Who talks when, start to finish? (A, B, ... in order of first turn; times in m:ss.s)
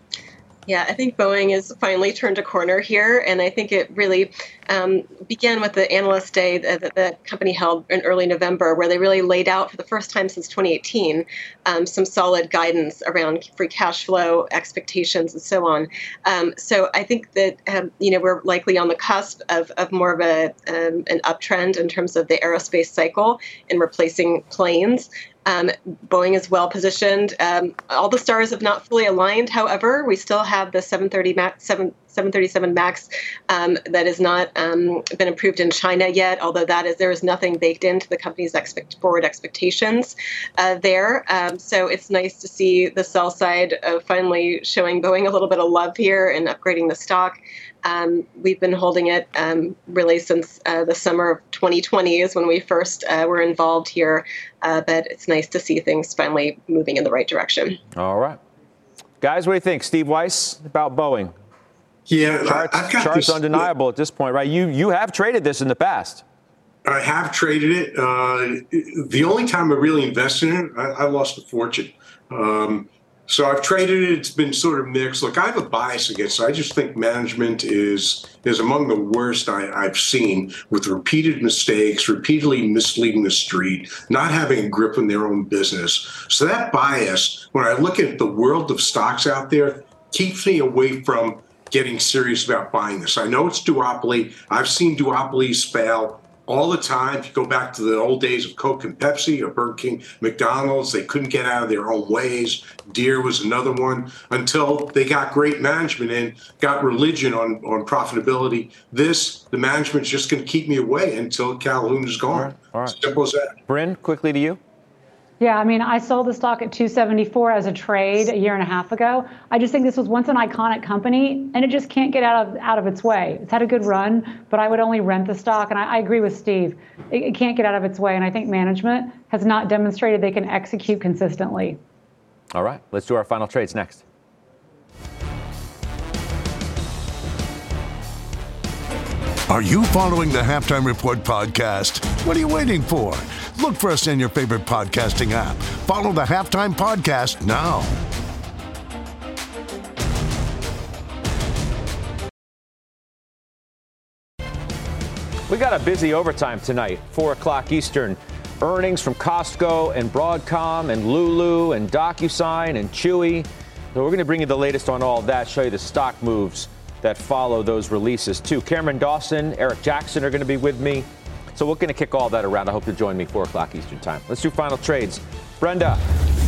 0:00.7-0:57.8 A
0:58.0-0:58.4 B
0:59.2-1:01.3 B
1:02.1-1:03.7 C
1:02.4-1:06.2 B
1:06.8-1:53.5 C
1:52.3-1:53.0 B
1:53.7-1:54.6 B
1:55.4-2:11.8 D
2:12.5-2:14.0 B
2:19.5-2:27.9 E
2:35.5-2:56.0 B